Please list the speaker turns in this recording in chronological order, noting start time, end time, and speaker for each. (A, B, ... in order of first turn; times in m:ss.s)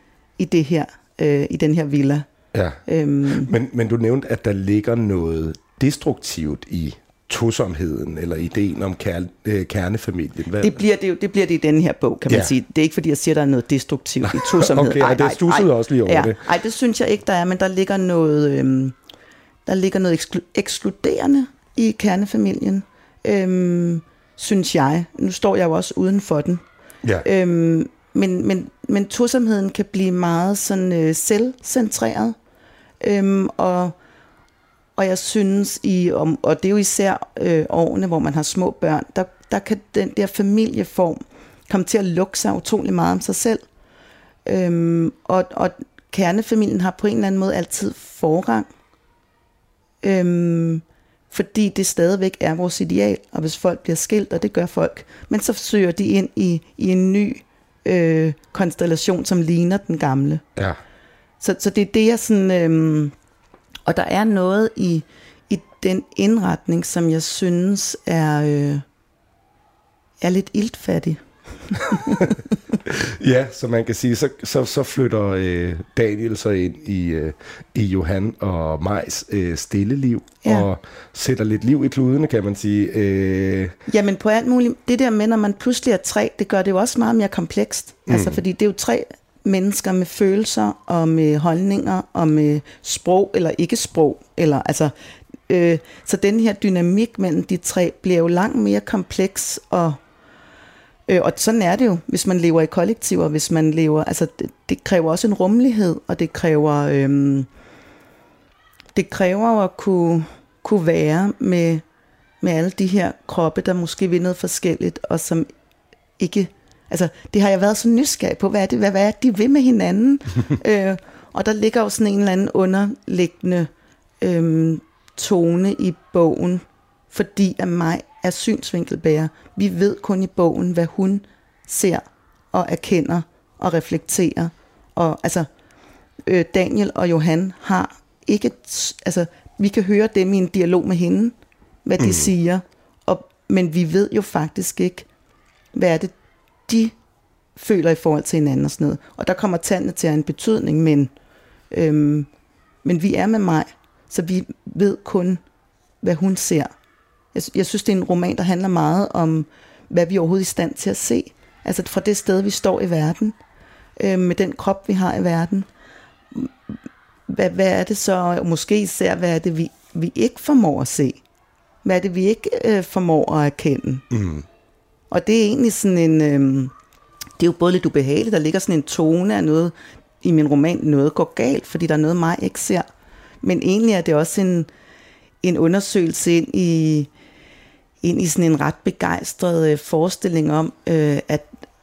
0:00.4-0:02.3 A
0:02.5-0:10.8 B
0:02.9-0:03.5 A
0:10.6-0:19.0 A
0:14.2-0:16.4 B
0:19.7-0:26.6 A
0:27.2-0:32.4 A
0:33.0-0:34.0 A
0:35.0-0:43.6 A
0:44.4-0:48.7 A
0:50.0-1:00.4 A
1:01.4-1:03.1 A
1:03.9-1:08.8 A
1:10.2-1:12.5 A
1:12.9-1:23.8 B
1:23.9-1:34.9 A
1:28.1-1:28.4 B
1:35.5-1:40.0 A
1:41.1-1:47.5 A
1:49.0-1:51.8 A
1:52.4-1:55.5 A
1:56.2-2:03.7 A
2:04.2-2:15.5 A
2:16.3-2:25.1 A
2:22.0-2:22.3 B
2:25.7-2:26.1 A
2:26.7-2:26.9 A
2:27.6-2:31.1 A
2:31.7-2:32.3 A
2:32.8-2:35.4 A
2:36.0-2:36.7 A
2:37.4-2:43.4 A
2:44.0-2:45.7 A
2:47.3-2:51.2 A
2:51.8-2:54.0 A
2:54.1-2:54.4 B
2:55.1-2:56.7 A
2:57.4-3:02.9 A
3:03.4-3:04.7 A
3:05.4-3:07.1 A
3:08.0-3:11.5 A